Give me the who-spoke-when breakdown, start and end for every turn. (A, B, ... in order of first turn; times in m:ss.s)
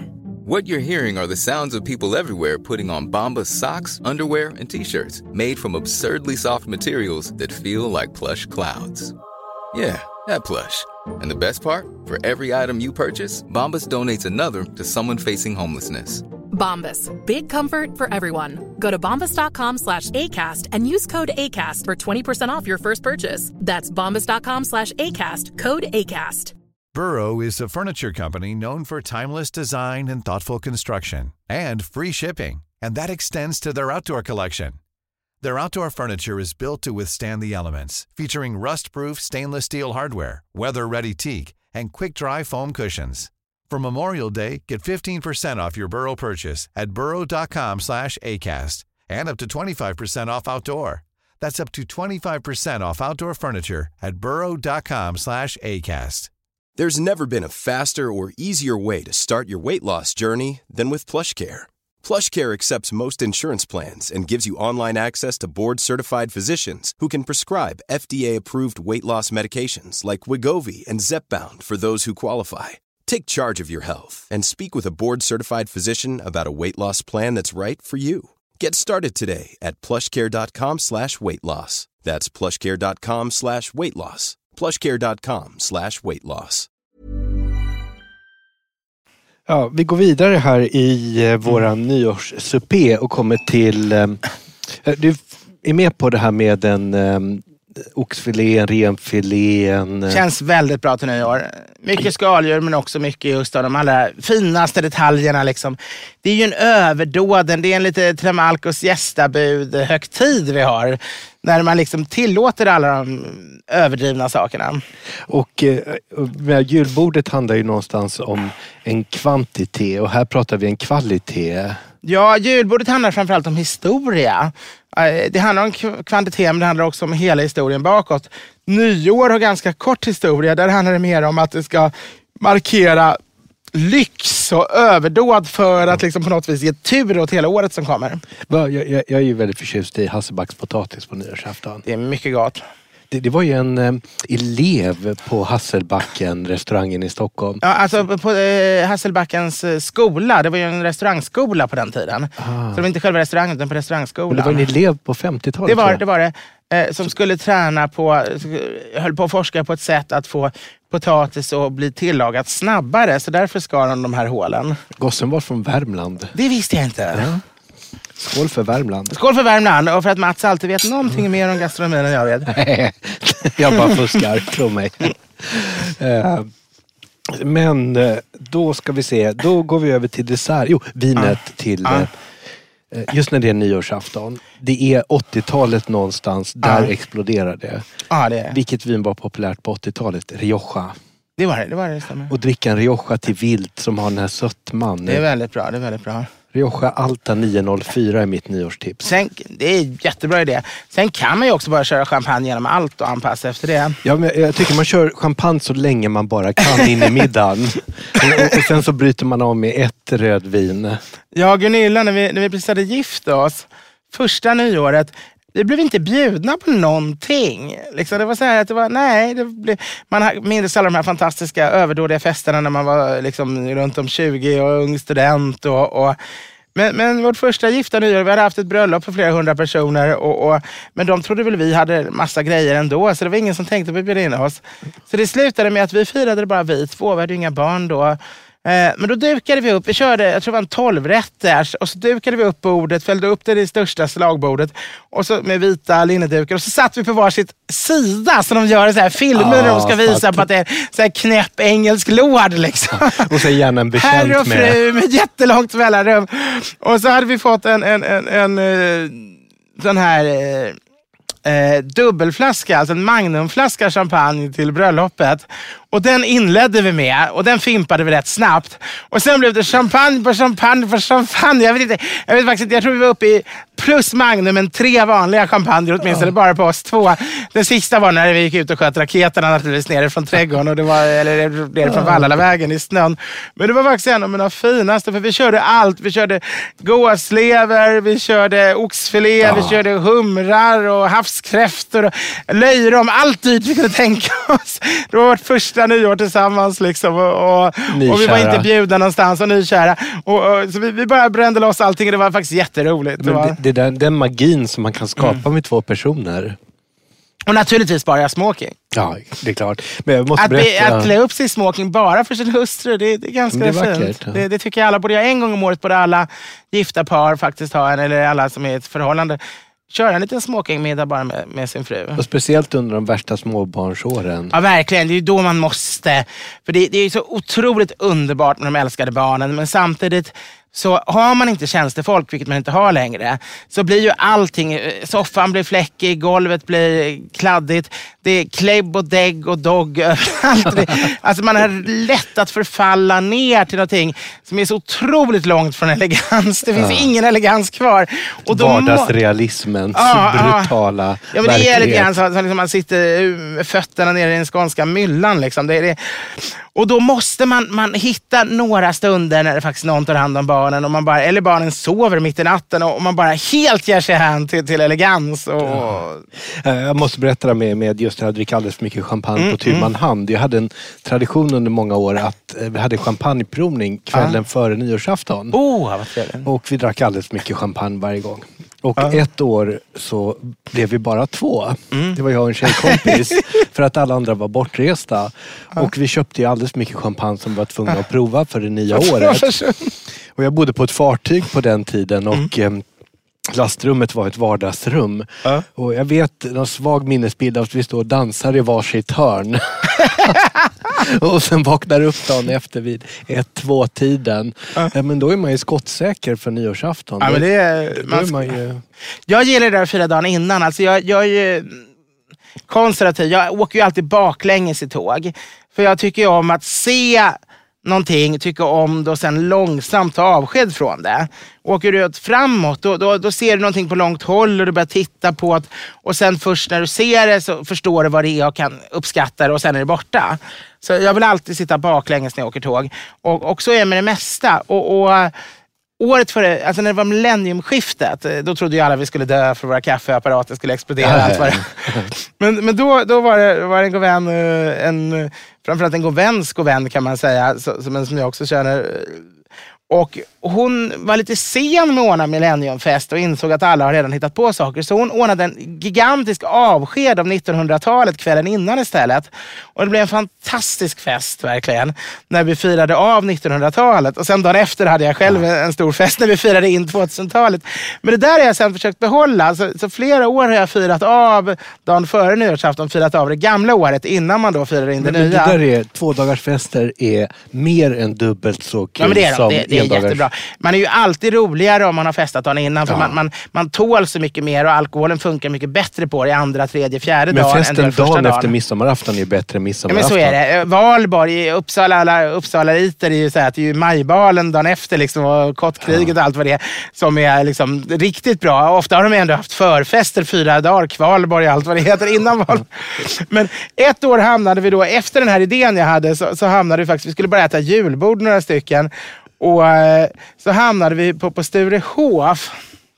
0:00.4-0:09.1 A
0:09.7-0:16.3 A
0:16.5-0:26.5 B
0:26.9-0:34.8 C
0:35.4-0:56.3 C
0:56.8-1:26.7 D
1:29.5-1:40.2 E
1:40.1-1:54.8 F
1:55.3-2:01.8 E
2:02.0-2:13.2 F
2:13.7-2:18.2 F
2:18.5-2:21.8 E
2:21.8-2:22.6 F
2:23.1-2:27.6 E
2:27.6-2:34.7 F
2:32.4-2:32.8 E
2:34.3-2:36.0 E
2:35.6-2:44.8 F
2:45.0-2:46.3 E
2:46.3-2:47.3 F
2:47.1-2:47.4 E
2:48.2-2:49.1 E
2:49.1-2:52.5 F
2:52.5-2:56.5 E
2:57.3-3:02.1 E
3:01.2-3:02.1 F
3:02.9-3:07.9 E
3:06.6-3:06.9 F
3:08.1-3:08.5 F
3:08.5-3:11.0 E
3:11.4-3:12.3 F
3:12.3-3:15.2 E
3:15.0-3:16.3 F
3:16.5-3:19.0 E
3:19.0-3:24.0 F
3:24.0-3:31.0 E
3:31.4-3:46.2 F
3:46.7-4:13.3 F
4:09.3-4:10.5 E
4:13.1-4:14.8 E
4:14.0-4:20.8 F
4:21.4-5:03.6 F
4:41.8-4:42.4 E
4:49.4-4:49.8 E
4:57.9-4:58.7 E
5:03.2-5:06.6 E
5:07.5-5:08.8 F
5:08.9-5:11.1 E
5:10.4-5:19.4 F
5:13.5-5:14.4 E
5:19.9-5:22.2 F
5:22.2-5:24.5 E
5:24.5-5:49.1 F
5:46.7-5:47.1 E
5:48.4-5:52.1 E
5:49.9-5:50.7 F
5:51.3-6:06.2 F
6:05.7-6:15.6 E
6:09.4-6:09.9 F
6:15.5-6:16.5 F
6:16.4-6:29.5 E
6:21.9-6:23.2 F
6:28.9-6:29.9 F
6:30.3-6:32.9 E
6:33.5-6:48.8 E
6:47.2-6:48.6 F
6:49.3-6:51.8 F
6:52.7-7:15.3 F
7:16.0-7:29.2 F
7:21.0-7:22.1 E
7:29.9-7:55.6 F
7:55.0-8:00.3 E
7:59.0-8:08.5 F
8:02.9-8:03.2 E
8:07.3-8:10.4 E
8:09.9-8:32.6 F
8:15.9-8:16.1 E